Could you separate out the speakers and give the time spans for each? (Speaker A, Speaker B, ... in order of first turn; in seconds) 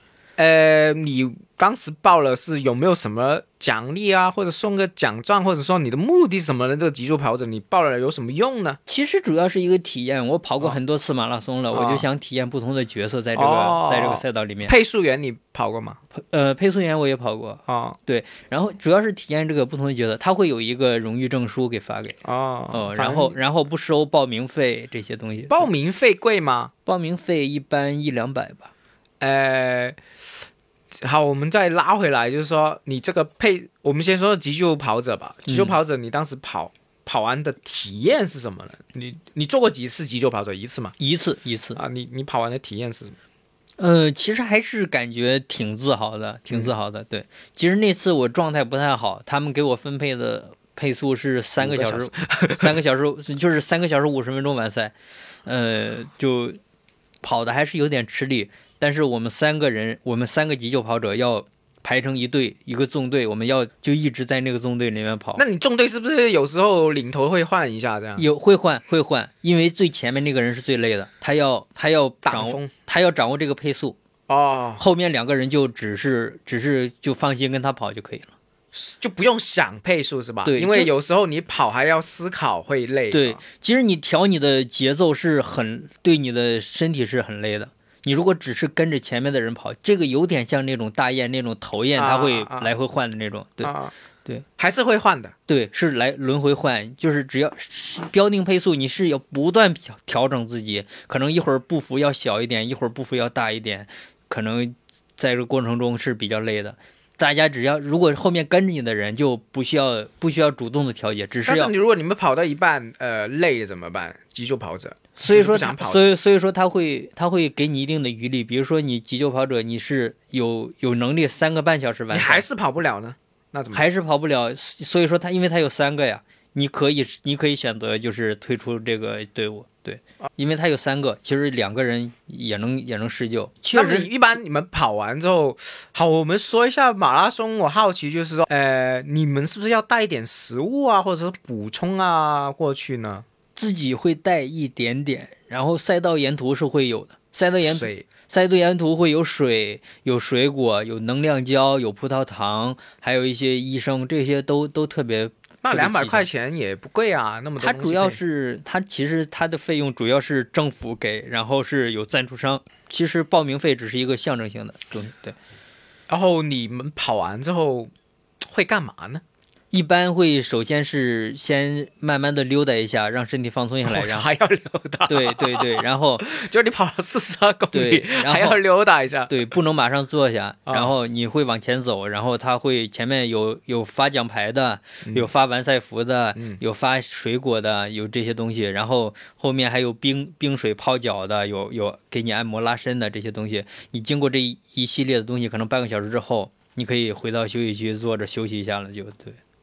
Speaker A: 0.4-8.8, 11.7-12.1, 13.3-16.0, 17.7-18.0, 22.2-23.4, 25.5-26.7, 29.2-30.0, 31.0-40.9, 41.7-43.1, 51.6-52.7, 65.3-68.2, 72.2-72.7, 74.3-74.8, 78.7-83.4, 92.0-92.7, 93.6-93.9, 94.6-95.3, 111.4-116.0, 122.1-123.8, 133.7-143.2, 147.6-148.1, 155.6-158.2, 166.1-169.2, 173.8-179.4, 180.7-180.9
Speaker B: 8.9-14.7, 16.1-22.2, 22.7-25.7, 26.9-28.7, 35.5-35.8, 41.0-41.8, 43.8-54.9, 55.4-56.6, 57.2-65.4, 68.2-74.0, 74.8-78.3, 80.4-80.9, 83.1-93.7, 95.5-111.7, 115.2-122.4, 123.7-134.1, 143.6-156.2, 157.6-165.4, 169.7-174.3, 175.1-176.2, 177.7-178.6, 179.3-199.4